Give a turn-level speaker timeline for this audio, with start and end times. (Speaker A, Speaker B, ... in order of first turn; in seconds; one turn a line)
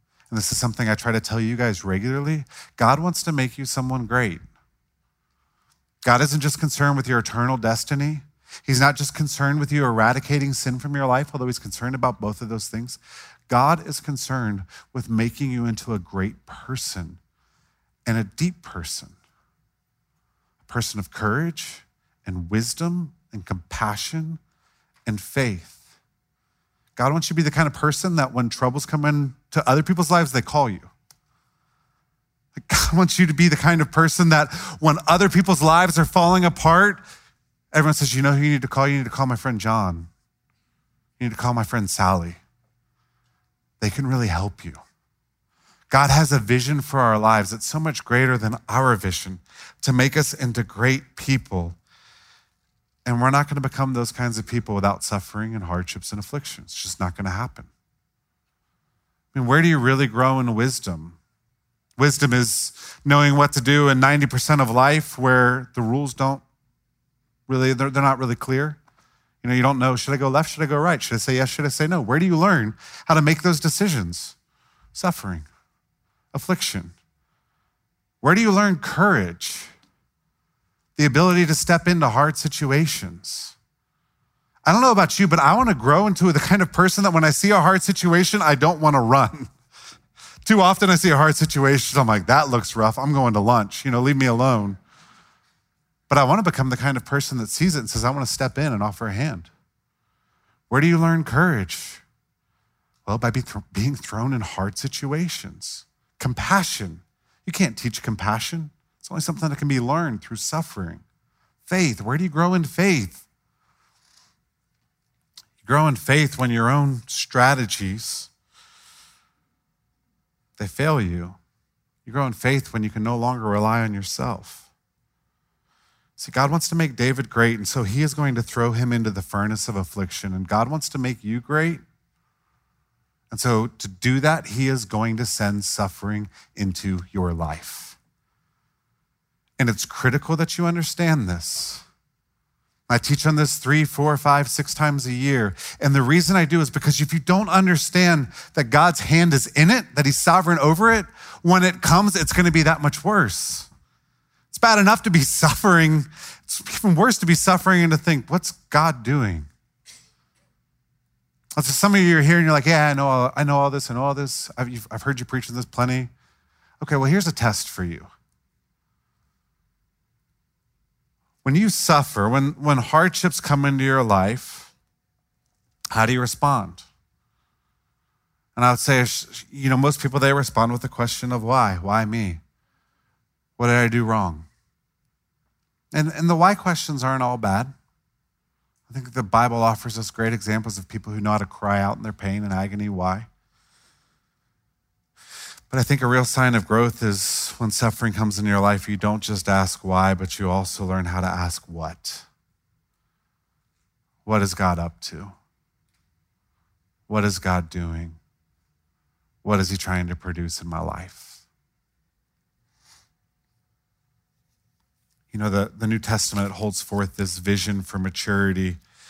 Speaker A: 0.3-4.4
Speaker A: 6.0-17.2
Speaker A: 18.1-19.2
Speaker A: 20.6-24.4
Speaker A: 25.1-25.8
Speaker A: 27.0-30.9
Speaker A: 32.5-37.0
Speaker A: 37.7-40.1
Speaker A: 41.2-42.4
Speaker A: 43.8-44.8
Speaker A: 45.9-51.8
Speaker A: 53.0-57.7
Speaker A: 59.3-61.2
Speaker A: 62.0-66.4
Speaker A: 67.5-68.8
Speaker A: 69.4-74.4
Speaker A: 75.0-75.5
Speaker A: 76.3-76.9
Speaker A: 78.2-79.7
Speaker A: 81.0-83.5
Speaker A: 84.7-89.5
Speaker A: 90.4-94.8
Speaker A: 96.1-99.5
Speaker A: 100.7-102.0
Speaker A: 103.1-111.0
Speaker A: 111.7-113.2
Speaker A: 115.6-118.3
Speaker A: 120.6-121.4
Speaker A: 122.0-124.7
Speaker A: 126.2-131.8
Speaker A: 133.3-138.0
Speaker A: 139.6-141.8
Speaker A: 142.9-153.7
Speaker A: 154.5-159.5
Speaker A: 161.6-166.1
Speaker A: 166.8-168.1
Speaker A: 171.4-174.7
Speaker A: 175.9-176.9
Speaker A: 178.6-182.4
Speaker A: 183.6-184.5
Speaker A: 185.9-187.7
Speaker A: 188.9-193.3
Speaker A: 195.7-202.3
Speaker A: 204.2-205.3
Speaker A: 207.1-208.2
Speaker A: 209.4-211.4
Speaker A: 215.3-218.8